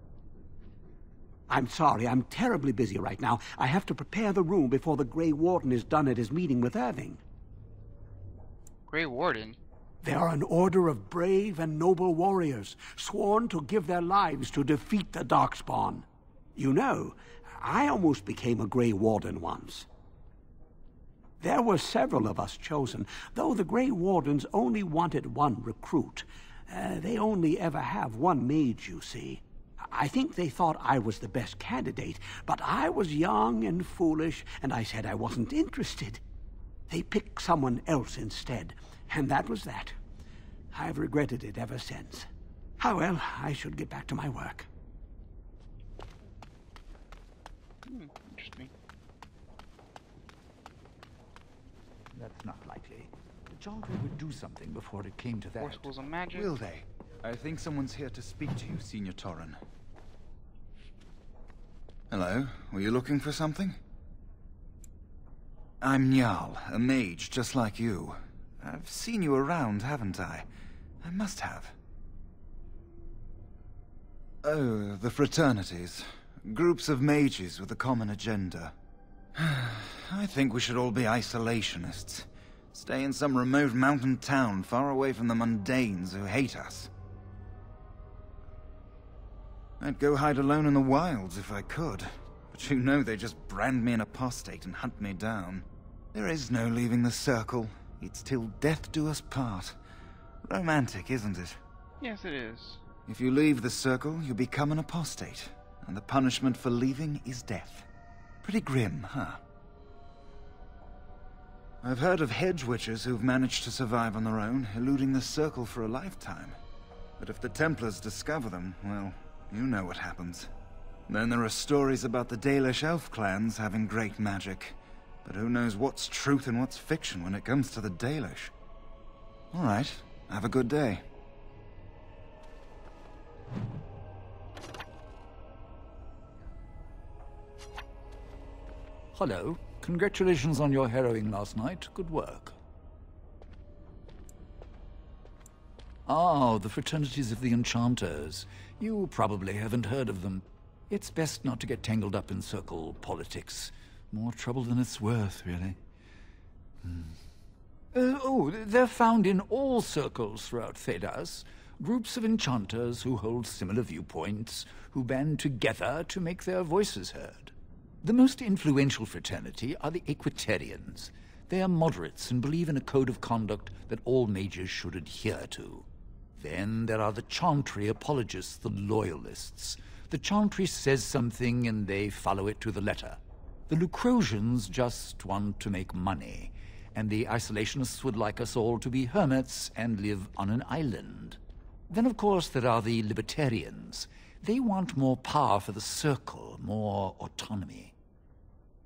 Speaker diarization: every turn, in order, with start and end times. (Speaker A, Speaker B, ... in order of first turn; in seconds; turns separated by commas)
Speaker A: 1.5-7.2, Speaker B: 8.9-9.6, Speaker A: 10.0-19.9, Speaker A: 21.4-36.2, Speaker A: 36.9-39.9, Speaker A: 40.7-42.3, Speaker A: 42.8-44.7, Speaker B: 47.9-48.7, Speaker C: 52.1-56.0, Speaker B: 55.6-56.5, Speaker D: 56.4-59.5, Speaker D: 62.1-63.7, Speaker D: 65.8-70.4, Speaker D: 71.0-71.7, Speaker D: 74.4-76.0, Speaker D: 76.5-78.7, Speaker D: 79.8-86.9, Speaker D: 89.8-95.6, Speaker D: 96.1-99.7, Speaker D: 100.5-101.5, Speaker B: 102.0-102.8, Speaker D: 103.1-107.8, Speaker D: 108.4-109.4, Speaker D: 111.8-116.5, Speaker D: 117.2-120.5, Speaker D: 121.1-128.5, Speaker D: 129.5-131.0, Speaker C: 139.1-142.6, Speaker C: 146.1-155.8, Speaker C: 156.8-157.1, Speaker C: 157.9-175.8, Speaker C: 176.4-191.4, Speaker C: 191.9-197.9